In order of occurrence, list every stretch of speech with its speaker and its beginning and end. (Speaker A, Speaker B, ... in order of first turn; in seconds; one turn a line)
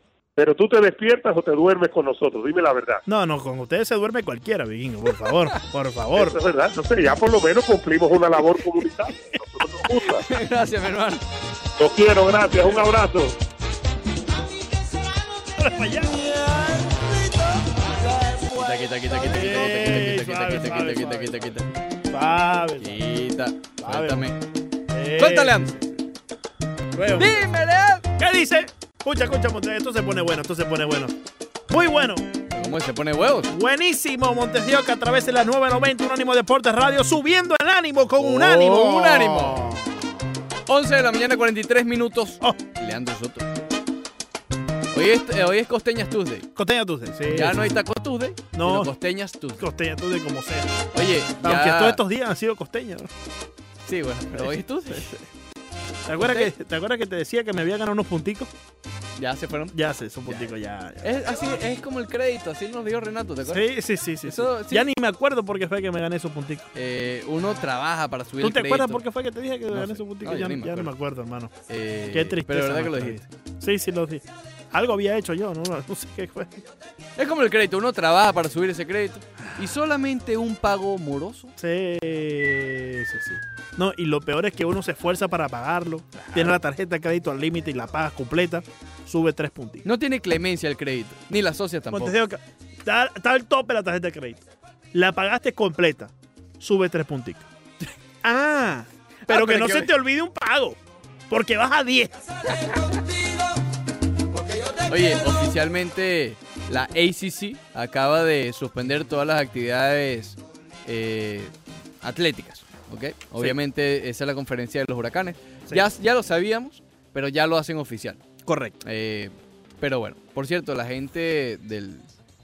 Speaker A: 0.3-3.0
Speaker B: 3.0-6.4
Speaker A: 6.1-10.3
Speaker C: 10.1-11.2
Speaker A: 11.8-13.3
Speaker B: 15.5-21.6
Speaker C: 18.5-21.7
Speaker B: 22.1-23.0
Speaker C: 22.8-24.4
Speaker B: 23.8-24.3
Speaker B: 24.9-25.8
Speaker C: 25.2-25.8
Speaker B: 26.9-27.4
Speaker C: 27.1-28.1
Speaker B: 28.2-31.1
Speaker B: 31.7-32.3
Speaker C: 32.5-33.5
Speaker B: 33.5-40.1
Speaker C: 38.2-39.7
Speaker C: 40.6-43.5
Speaker C: 44.9-46.5
Speaker B: 46.5-47.7
Speaker C: 47.3-49.6
Speaker B: 48.5-48.9
Speaker B: 49.6-50.9
Speaker C: 50.9-52.0
Speaker B: 51.4-53.1
Speaker C: 53.9-55.3
Speaker B: 56.0-58.5
Speaker C: 56.2-56.5
Speaker C: 59.2-60.5
Speaker B: 59.7-61.1
Speaker C: 61.0-63.7
Speaker B: 63.5-66.7
Speaker C: 64.2-64.9
Speaker C: 66.7-69.0
Speaker B: 68.4-71.5
Speaker C: 69.7-70.9
Speaker C: 71.7-73.2
Speaker B: 72.1-76.6
Speaker C: 77.2-81.5
Speaker B: 81.6-89.8
Speaker C: 86.3-86.6
Speaker C: 89.8-92.2
Speaker B: 91.9-97.5
Speaker B: 98.2-100.8
Speaker C: 99.2-99.9
Speaker B: 101.3-102.1
Speaker C: 102.5-102.8
Speaker C: 104.8-118.2
Speaker B: 118.5-118.8
Speaker C: 118.8-122.0